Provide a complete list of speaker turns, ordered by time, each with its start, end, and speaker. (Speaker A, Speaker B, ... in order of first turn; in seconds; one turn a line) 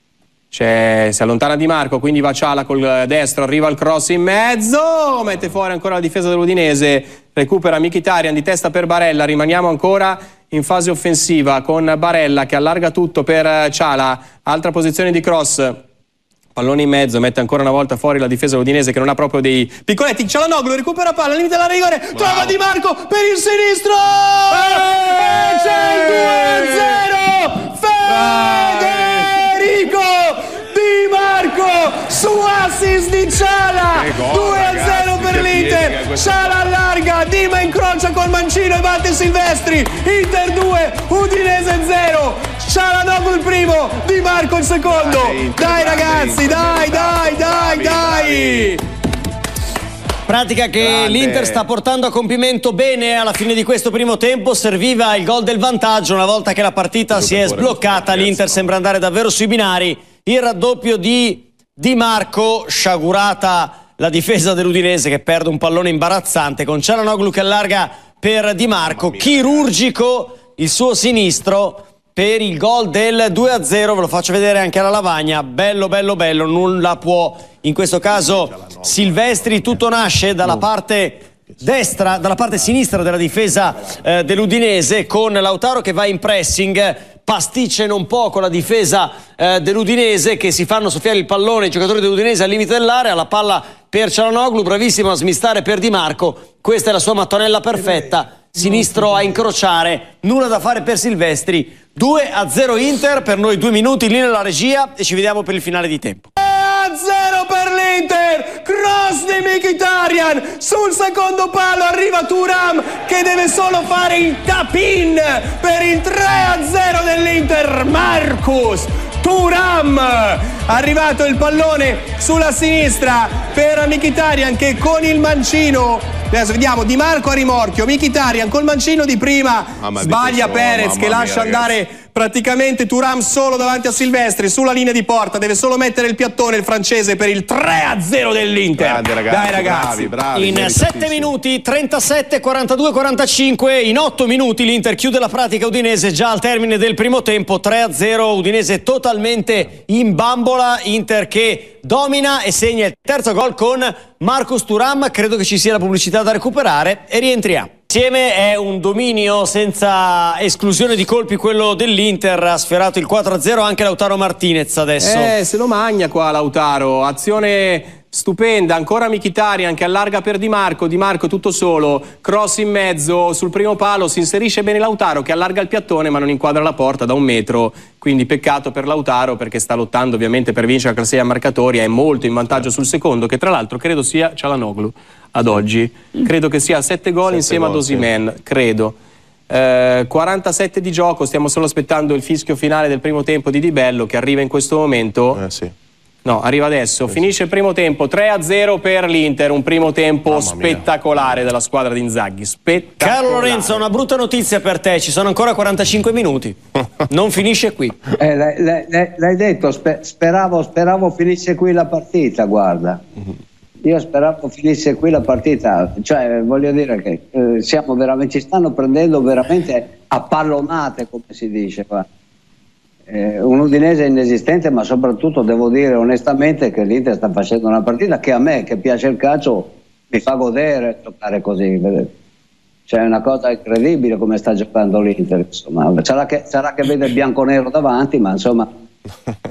Speaker A: 0.5-15.8
Speaker A: 16.5-48.8
Speaker B: 22.1-22.5
Speaker B: 25.2-26.8
Speaker B: 28.1-29.5
Speaker B: 33.9-36.4
Speaker B: 44.9-48.8
Speaker C: 50.2-106.3
Speaker B: 50.8-51.6
Speaker B: 57.1-58.7
Speaker B: 68.8-69.7
Speaker B: 78.2-79.8
Speaker A: 106.4-140.1
Speaker B: 129.8-131.7
Speaker B: 138.7-141.3
Speaker C: 140.3-165.3
Speaker A: 165.0-188.9
Speaker B: 187.3-188.1
Speaker A: 189.5-195.4
Speaker B: 195.3-195.7
Speaker A: 196.2-203.8
Speaker B: 200.3-200.8
Speaker C: 203.0-206.6
Speaker C: 207.1-208.0
Speaker D: 208.2-213.0
Speaker D: 213.8-222.1
Speaker D: 223.1-232.1
Speaker D: 232.9-238.7